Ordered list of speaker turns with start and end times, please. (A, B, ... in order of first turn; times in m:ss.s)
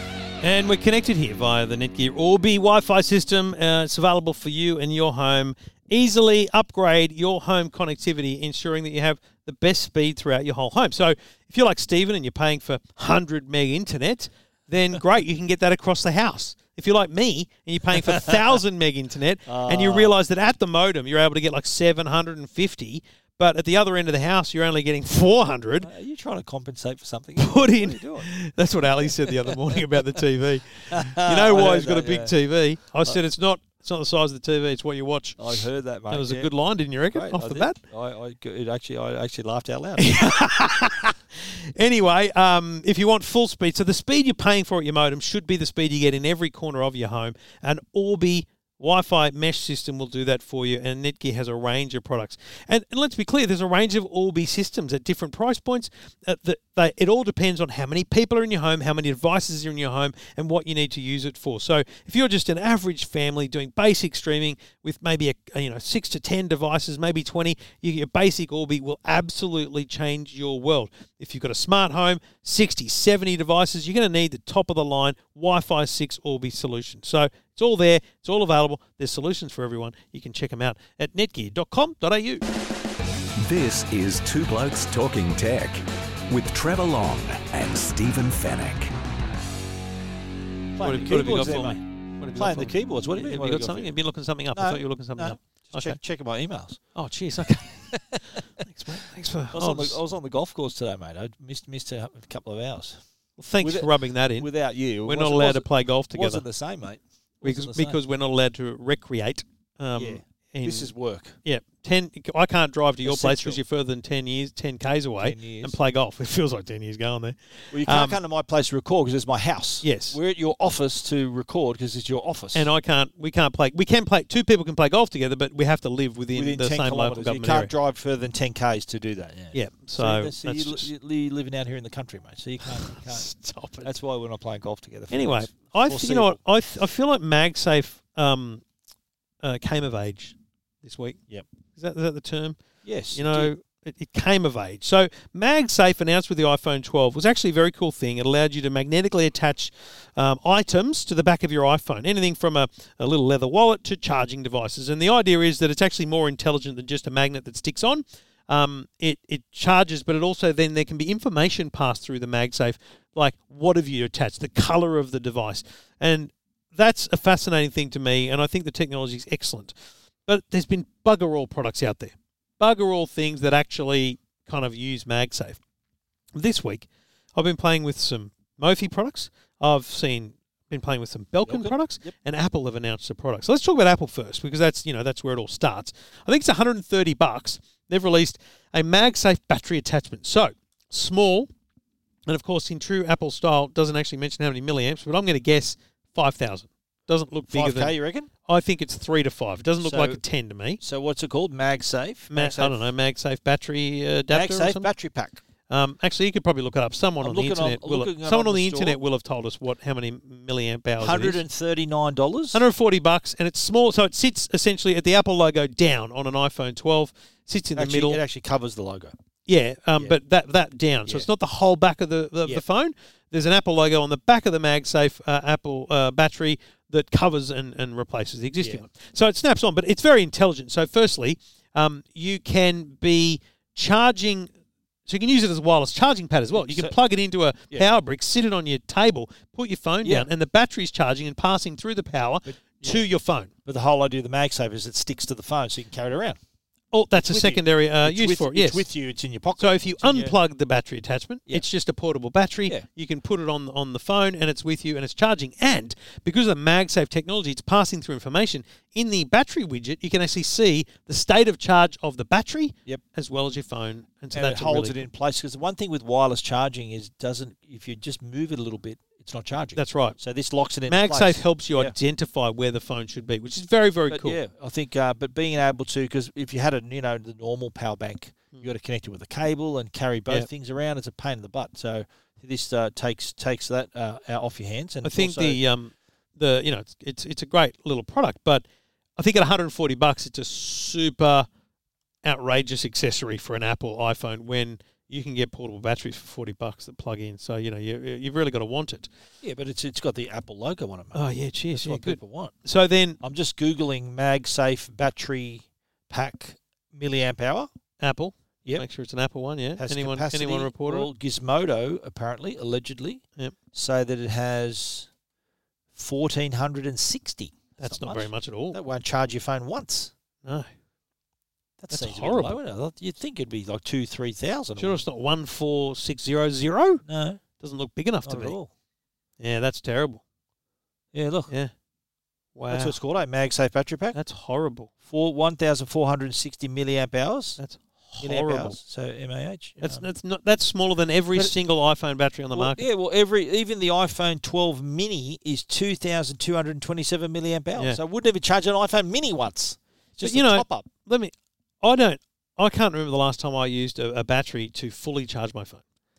0:00.4-0:25.9 A
0:19.5-0:20.1 B
0:25.8-0:28.3 B
0:27.4-0:37.8 A
0:29.0-0:29.8 B
0:30.9-0:32.4 B
0:35.4-0:36.5 B
0:37.1-0:40.2 B
0:40.0-1:22.4 A
1:23.4-1:28.9 C
1:30.8-1:31.8 B
1:30.8-1:36.0 A
1:32.3-1:33.9 B
1:34.5-1:36.8 B
1:37.0-1:40.0 A
1:37.9-1:39.0 B
1:39.5-1:43.0 B
1:43.4-1:44.5 A
1:43.6-1:48.0 B
1:45.0-1:46.4 A
1:47.4-1:50.9 A
1:50.0-1:51.4 B
1:51.4-1:58.2 A
1:53.0-1:53.6 B
1:55.2-1:55.8 B
1:57.7-2:02.7 B
1:59.8-2:00.2 A
2:02.5-2:07.7 A
2:06.4-2:13.3 B
2:09.5-2:10.9 A
2:12.7-2:13.9 A
2:13.8-2:16.4 B
2:15.1-2:18.6 A
2:19.4-2:21.2 A
2:21.7-2:22.6 A
2:22.8-2:23.5 B
2:23.1-2:49.7 A
2:50.3-2:55.6 A
2:56.4-3:11.5 A
3:01.5-3:02.1 B
3:12.3-3:20.8 A
3:17.5-3:18.3 B
3:19.8-3:20.2 B
3:20.8-3:22.8 B
3:22.3-3:24.9 A
3:24.3-3:25.4 B
3:25.7-3:31.4 A
3:27.2-3:29.0 B
3:31.0-3:32.6 B
3:32.5-3:38.2 A
3:37.8-3:39.1 B
3:39.5-3:54.5 A
3:55.1-4:03.5 A
3:56.5-3:57.0 B
4:00.0-4:00.3 B
4:02.5-4:03.1 B
4:03.6-4:06.4 B
4:06.9-4:08.8 A
4:07.2-4:10.4 B
4:09.6-4:25.1 A
4:24.3-4:31.9 B
4:29.8-4:30.2 A
4:30.9-4:34.4 A
4:34.1-4:45.6 B
4:45.0-4:48.6 A
4:49.2-4:51.5 A
4:52.2-4:59.1 A
4:59.4-5:02.5 B
5:01.1-5:03.2 A
5:03.2-5:07.7 B
5:08.0-5:11.1 A
5:09.8-5:13.2 B
5:13.7-5:15.1 B
5:15.9-5:20.1 B
5:17.8-5:18.8 A
5:21.8-5:25.0 B
5:21.9-5:22.6 A
5:24.8-5:27.0 A
5:27.0-5:27.4 B
5:27.6-5:28.6 A
5:28.2-5:28.7 B
5:29.4-5:30.2 A
5:31.1-5:31.5 B
5:32.6-5:33.0 A
5:32.7-5:34.2 B
5:34.1-5:34.9 A
5:35.0-5:37.6 B
5:37.6-5:38.8 A
5:38.2-5:40.1 B
5:39.8-5:42.8 A
5:42.5-5:50.9 B
5:50.2-5:55.8 A